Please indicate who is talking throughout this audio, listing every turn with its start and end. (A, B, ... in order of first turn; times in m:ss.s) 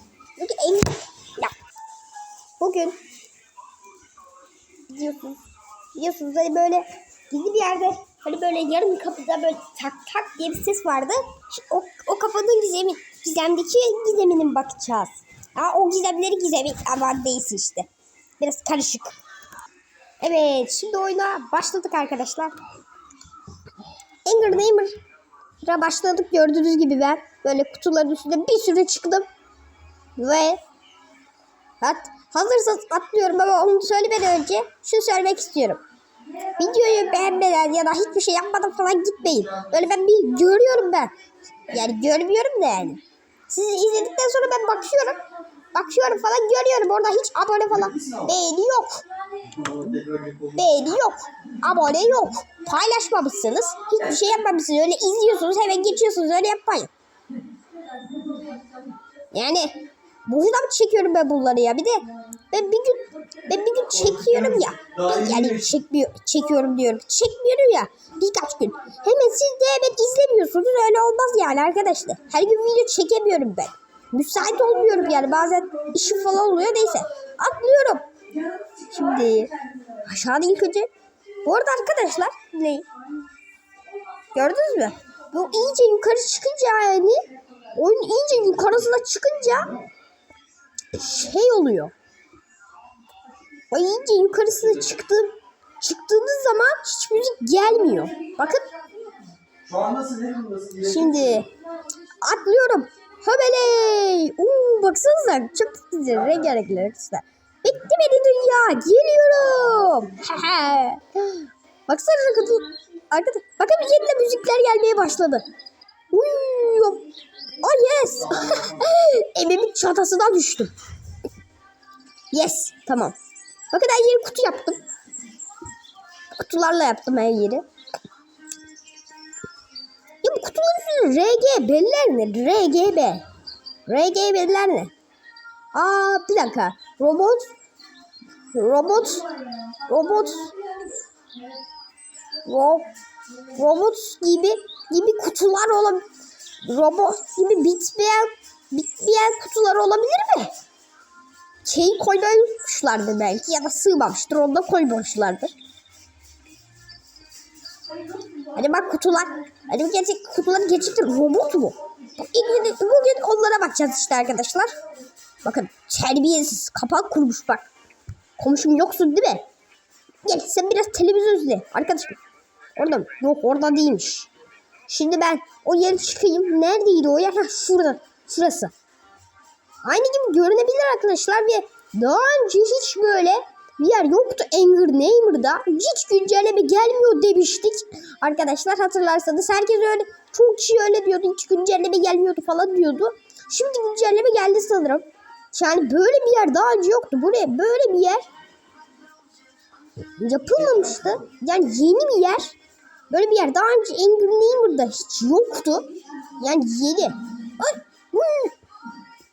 0:00.4-0:01.5 A
0:02.6-0:03.0 A
0:04.9-0:05.4 A
0:05.9-0:17.9 A
0:18.4-0:19.2 A
0:20.2-0:22.5 A
0:24.2-0:25.0 A
0:25.6-0:29.2 A
0:30.2-0:30.6 A
0:31.8-0:35.8 A
0:36.5-0:41.2 A
0:41.7-0:49.0 A
0:47.8-0:48.3 B
0:49.4-0:50.8 B
0:50.5-0:56.9 A
0:59.3-1:18.1 A
1:04.0-1:05.7 B
1:18.8-1:20.9 A
1:21.4-1:22.9 A
1:24.3-1:29.7 A
1:30.9-1:31.9 A
1:33.7-1:38.7 A
1:39.6-1:41.5 B
1:40.8-1:41.5 A
1:42.2-1:55.5 A
1:56.1-1:57.1 A
1:57.6-2:00.7 A
1:58.5-1:58.8 B
2:02.3-2:03.2 A
2:03.7-2:04.8 A
2:06.3-2:07.6 A
2:10.2-2:13.2 A
2:13.9-2:14.9 A
2:15.7-2:17.5 A
2:18.5-2:19.3 A
2:19.8-2:20.6 A
2:22.4-2:22.9 A
2:23.5-2:26.0 A
2:26.6-2:30.5 A
2:31.6-2:35.5 A
2:38.4-2:44.8 A
2:45.4-2:47.7 A
2:48.4-2:49.4 A
2:50.2-2:52.2 A
2:52.8-2:54.3 A
2:54.9-2:58.7 A
2:59.8-3:18.3 A
3:20.2-3:22.6 A
3:23.1-3:28.5 A